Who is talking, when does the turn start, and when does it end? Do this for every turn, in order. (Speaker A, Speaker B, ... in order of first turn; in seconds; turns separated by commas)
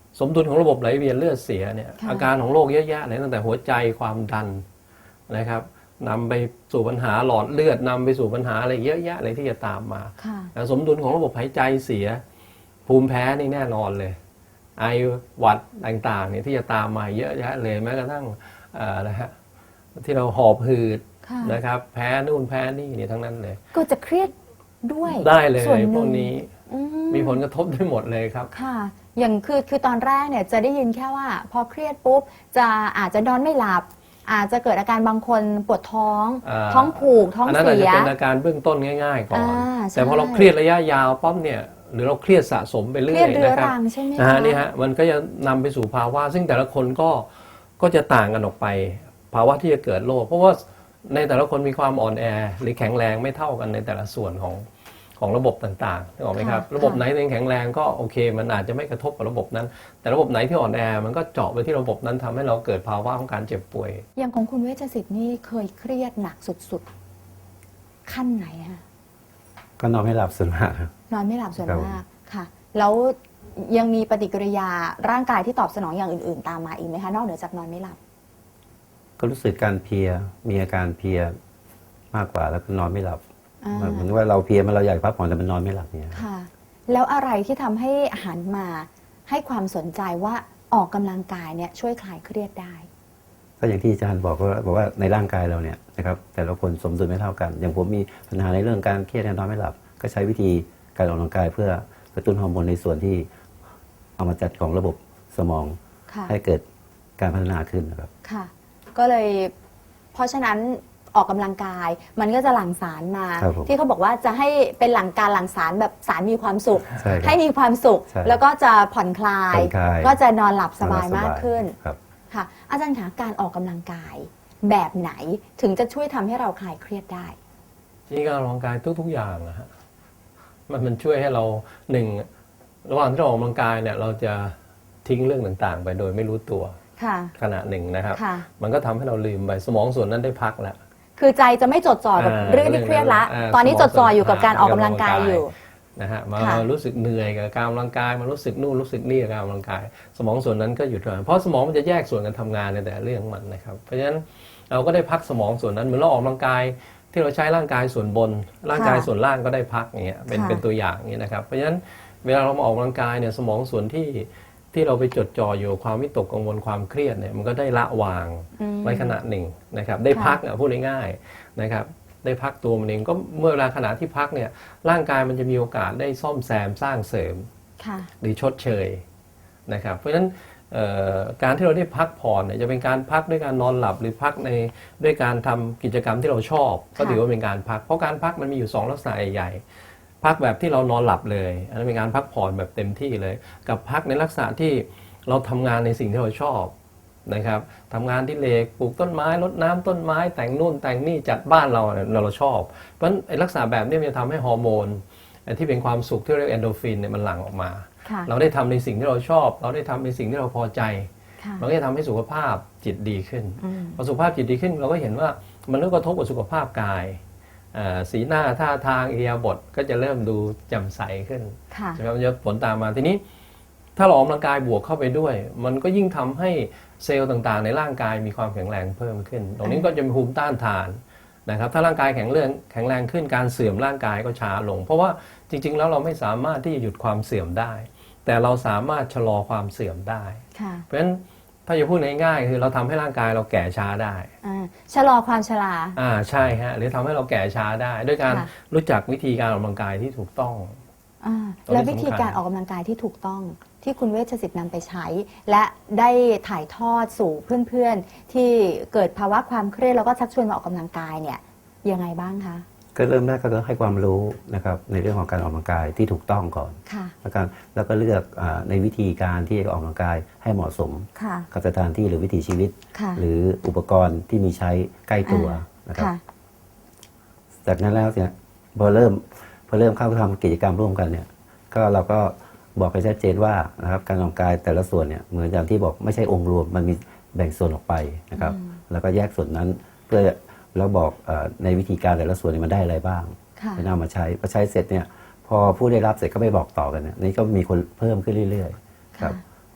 Speaker A: 0.1-4.6, Speaker B: 2.0-2.3, Speaker A: 5.3-12.2, Speaker B: 10.2-10.5, Speaker A: 12.9-14.2, Speaker A: 14.8-19.3, Speaker A: 20.0-23.6, Speaker B: 21.2-21.6, Speaker B: 23.7-24.3, Speaker B: 24.8-27.4, Speaker A: 25.1-26.5, Speaker A: 27.1-28.5, Speaker B: 28.5-38.1, Speaker A: 36.4-47.3, Speaker B: 39.3-40.5, Speaker B: 43.1-44.6, Speaker A: 47.8-54.6, Speaker A: 55.2-64.0, Speaker B: 56.3-57.0, Speaker B: 64.2-66.9, Speaker B: 68.1-68.8, Speaker C: 69.8-70.9, Speaker B: 71.1-78.0, Speaker C: 71.6-72.0, Speaker C: 79.2-81.4, Speaker C: 82.1-83.2, Speaker B: 83.6-84.1, Speaker C: 83.7-86.2, Speaker B: 86.1-92.9, Speaker C: 93.6-103.3, Speaker C: 104.2-106.6, Speaker B: 106.1-106.3, Speaker C: 107.2-108.1, Speaker B: 108.2-109.5, Speaker B: 110.1-121.7, Speaker C: 113.4-113.7, Speaker C: 117.0-117.4, Speaker C: 118.1-118.4, Speaker C: 119.5-120.2, Speaker C: 120.8-122.0, Speaker B: 122.3-127.4, Speaker A: 128.1-129.7, Speaker A: 130.7-132.3, Speaker A: 132.8-136.8, Speaker B: 137.0-137.3, Speaker A: 137.4-140.8, Speaker B: 138.1-138.5, Speaker B: 141.2-145.5, Speaker A: 142.2-177.5, Speaker B: 146.4-146.7, Speaker B: 158.7-159.1, Speaker B: 160.3-160.6, Speaker B: 168.6-169.2, Speaker B: 170.1-170.4, Speaker B: 177.8-178.1, Speaker A: 178.2-179.0, Speaker A: 179.7-189.6, Speaker A: 190.2-196.7, Speaker A: 197.3-217.2, Speaker B: 208.1-208.3, Speaker B: 211.4-211.7, Speaker B: 213.6-214.0, Speaker A: 217.7-223.2, Speaker B: 221.7-222.0, Speaker A: 224.0-244.3, Speaker B: 229.6-229.9, Speaker B: 240.6-240.8, Speaker B: 244.4-246.0, Speaker A: 246.0-250.8, Speaker B: 251.2-262.6, Speaker A: 251.7-252.4, Speaker C: 262.9-276.1, Speaker B: 266.9-267.1, Speaker B: 271.2-271.5, Speaker B: 272.9-273.2, Speaker B: 275.2-276.2, Speaker C: 277.6-299.4, Speaker B: 288.4-288.7, Speaker B: 293.6-293.8